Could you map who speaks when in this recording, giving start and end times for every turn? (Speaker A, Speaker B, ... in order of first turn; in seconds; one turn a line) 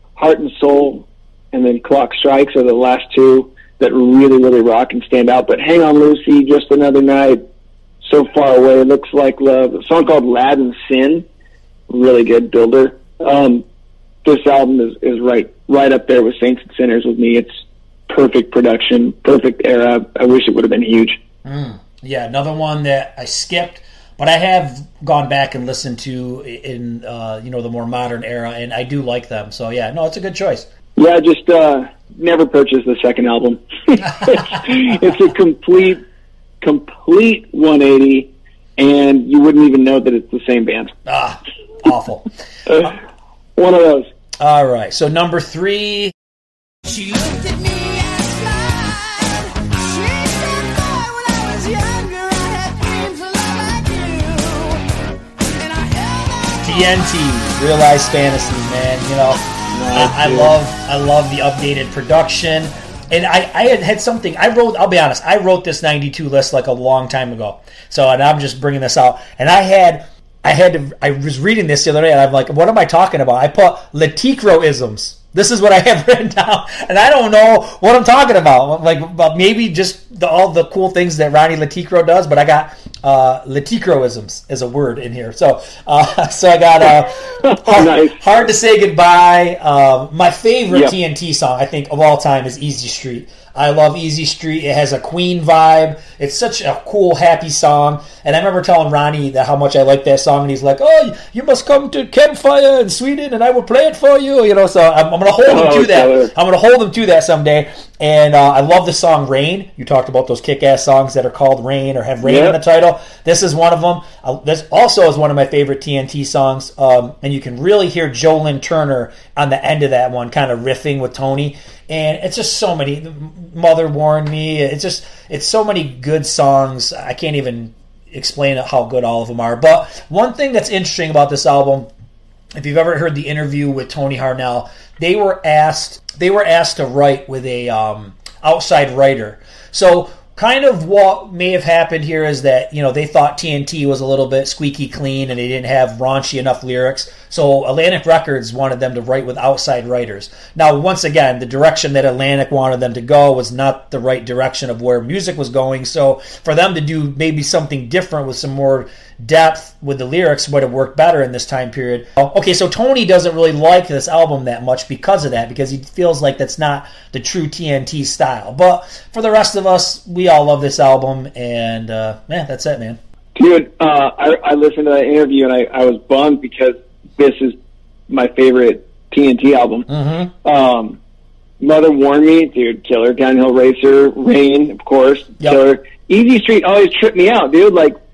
Speaker A: 0.2-7.4
Speaker A: 8.0-11.2
Speaker A: 11.9-13.6
Speaker A: 14.2-17.5
Speaker A: 18.1-21.2
Speaker B: 21.4-30.7
Speaker A: 31.0-36.0
Speaker A: 36.6-40.9
Speaker B: 41.1-42.9
Speaker A: 42.7-42.9
Speaker A: 43.6-44.1
Speaker B: 44.4-46.1
Speaker C: 46.9-54.8
Speaker C: 55.6-56.7
Speaker B: 56.6-59.4
Speaker A: 59.7-60.6
Speaker B: 59.9-131.9
Speaker A: 87.4-88.2
Speaker A: 90.7-91.0
Speaker A: 105.5-106.3
Speaker A: 112.2-112.6
Speaker B: 132.6-173.0
Speaker A: 173.4-177.6
Speaker A: 178.1-179.9
Speaker B: 179.9-180.3
Speaker A: 180.4-181.0
Speaker A: 181.6-188.0